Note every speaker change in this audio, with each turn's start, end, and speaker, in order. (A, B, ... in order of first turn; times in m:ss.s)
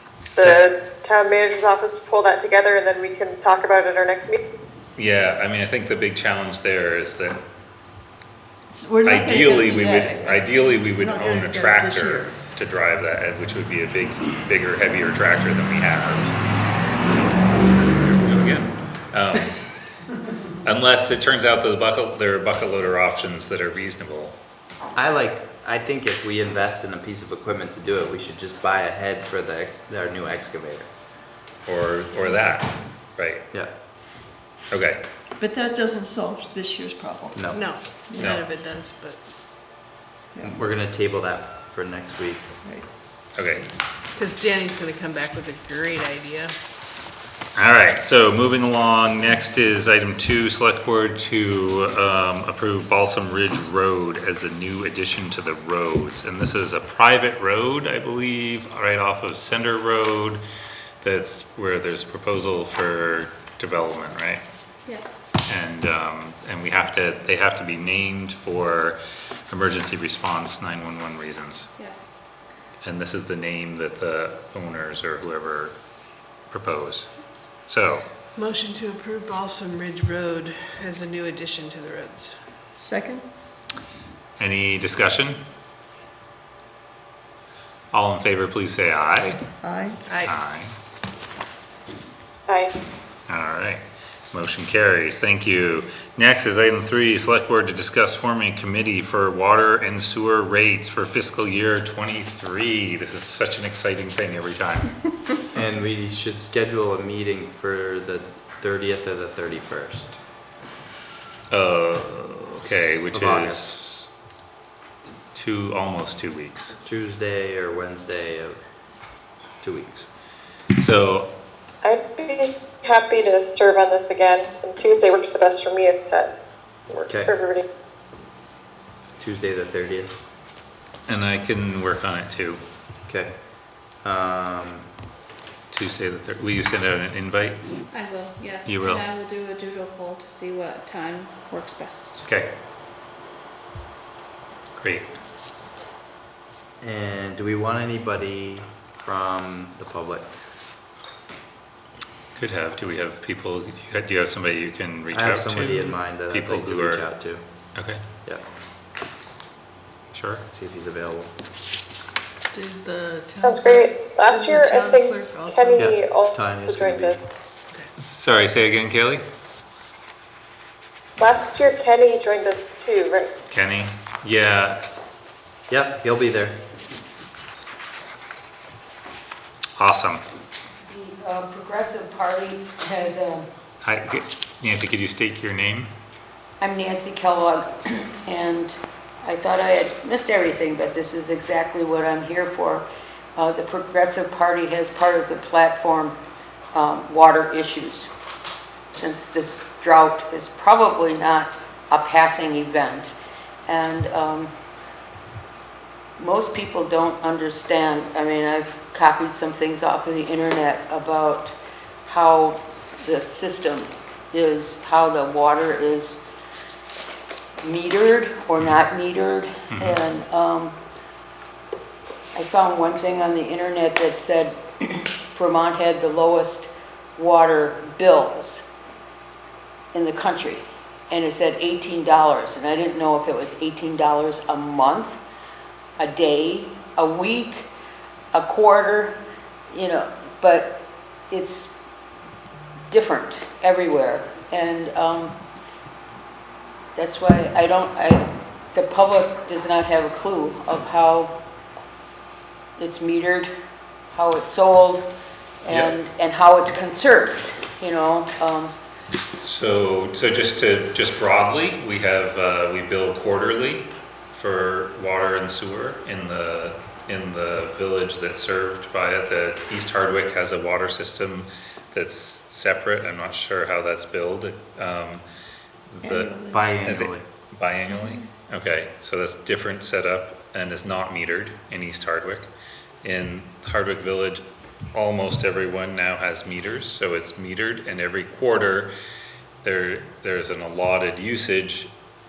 0:00.3-0:04.4 A
0:05.0-0:07.4 B
0:08.7-0:12.4 C
0:09.0-0:16.4 B
0:17.1-0:19.6 B
0:20.6-0:24.4 B
0:24.9-0:30.9 D
0:31.6-0:33.4 B
0:34.7-0:35.0 B
0:35.4-0:38.4 C
0:37.3-0:37.6 D
0:37.5-0:39.2 E
0:38.1-0:38.5 B
0:40.3-0:40.6 C
0:40.4-0:42.6 D
0:43.3-0:43.7 B
0:44.1-0:46.5 E
0:47.5-1:00.4 B
1:01.0-1:04.4 B
1:04.8-1:05.3 F
1:05.4-1:09.0 B
1:09.5-1:11.7 B
1:11.8-1:12.2 F
1:12.8-1:15.8 B
1:16.5-1:17.1 B
1:17.7-1:18.0 B
1:18.3-1:22.4 E
1:22.7-1:23.3 C
1:24.4-1:25.4 B
1:27.9-1:29.5 B
1:29.5-1:30.0 C
1:30.0-1:30.4 E
1:30.2-1:30.7 B
1:32.5-1:32.7 A
1:33.3-1:45.1 B
1:45.5-1:50.2 D
1:51.5-1:54.1 B
1:53.1-1:53.7 D
1:55.3-1:56.7 B
1:56.8-1:58.6 D
1:59.6-2:00.1 D
2:00.8-2:01.3 B
2:01.8-2:06.3 A
2:06.9-2:07.6 A
2:07.1-2:07.3 D
2:09.2-2:10.2 D
2:11.1-2:12.6 B
2:13.1-2:14.9 D
2:15.7-2:17.6 B
2:17.9-2:22.3 F
2:18.6-2:19.0 B
2:22.2-2:22.5 B
2:24.7-2:25.1 B
2:26.8-2:30.4 D
2:32.3-2:38.0 B
2:35.1-2:37.7 D
2:40.1-2:40.4 B
2:40.5-2:41.3 D
2:42.5-2:45.9 E
2:43.4-2:47.2 A
2:45.8-2:47.2 D
2:48.0-2:49.2 B
2:51.2-2:53.3 A
2:53.5-2:54.8 B
2:55.7-2:56.6 D
2:59.8-3:00.2 B
3:00.8-3:03.5 G
3:03.8-3:05.9 B
3:06.6-3:16.2 G
3:16.7-3:18.1 G
3:18.9-3:23.1 G
3:23.6-3:24.5 G
3:26.2-3:36.2 G
3:37.6-3:40.8 G
3:39.7-3:40.0 B
3:42.3-3:48.6 G
3:49.9-3:55.2 G
3:56.0-3:57.7 G
3:58.3-4:01.7 G
4:02.9-4:05.4 G
4:06.9-4:11.4 G
4:12.8-4:13.5 G
4:14.1-4:15.1 G
4:15.6-4:18.7 G
4:15.7-4:15.9 B
4:19.1-4:35.2 B
4:35.9-4:42.5 B
4:36.0-4:36.8 C
4:36.2-4:37.2 D
4:43.0-4:48.9 B
4:49.6-4:51.9 B